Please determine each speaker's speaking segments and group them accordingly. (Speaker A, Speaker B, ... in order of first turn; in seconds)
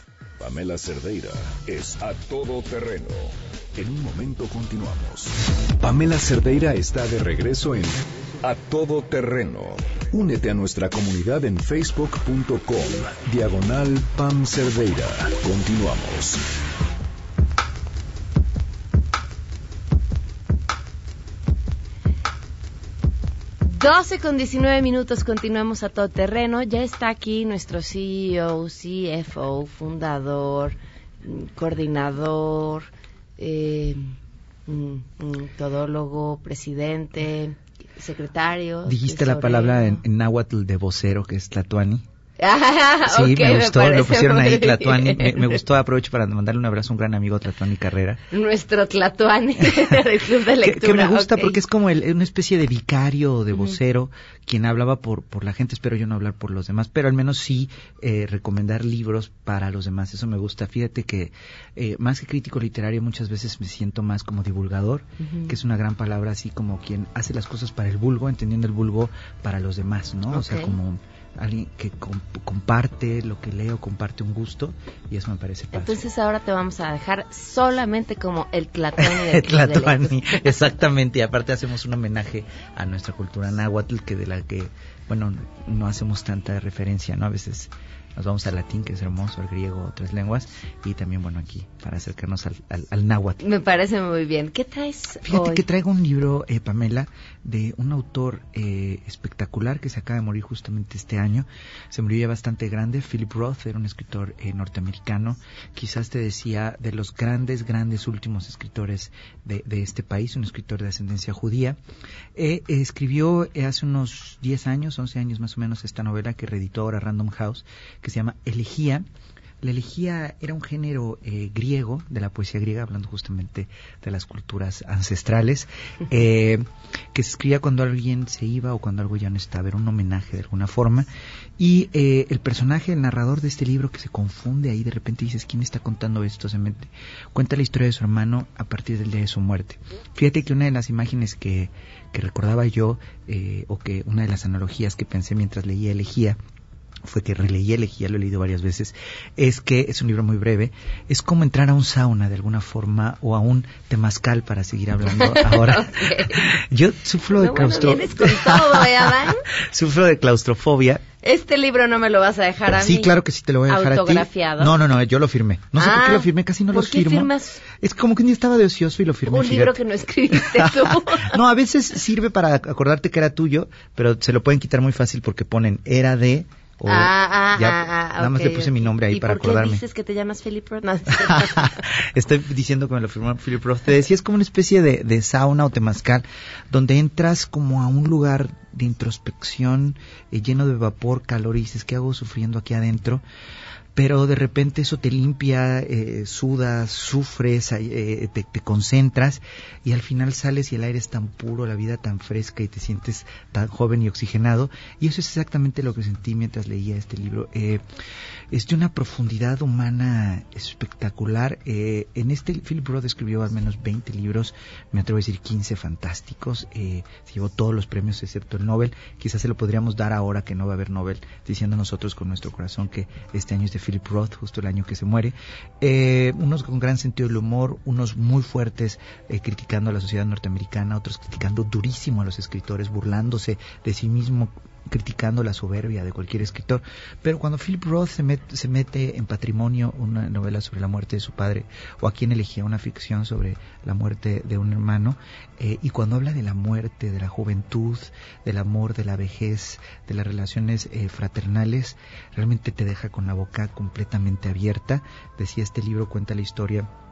Speaker A: 0.4-16.4
Speaker B: 23.6-34.1, 34.7-40.0, 42.4-45.6, 48.3-51.6, 65.2-65.5, 70.3-70.8, 75.7-80.6, 93.4-95.6, 155.1-156.5, 157.4-159.4, 161.2-163.1, 163.7-164.8, 165.8-167.6, 169.3-171.4, 176.9-181.8
Speaker C: 38.8-42.0, 43.1-48.2, 50.6-76.0, 79.0-93.4, 95.2-111.8, 112.3-119.1, 119.6-146.4, 147.0-161.0, 162.7-169.8, 170.3-179.8, 181.2-193.2, 193.9-207.8, 208.5-256.9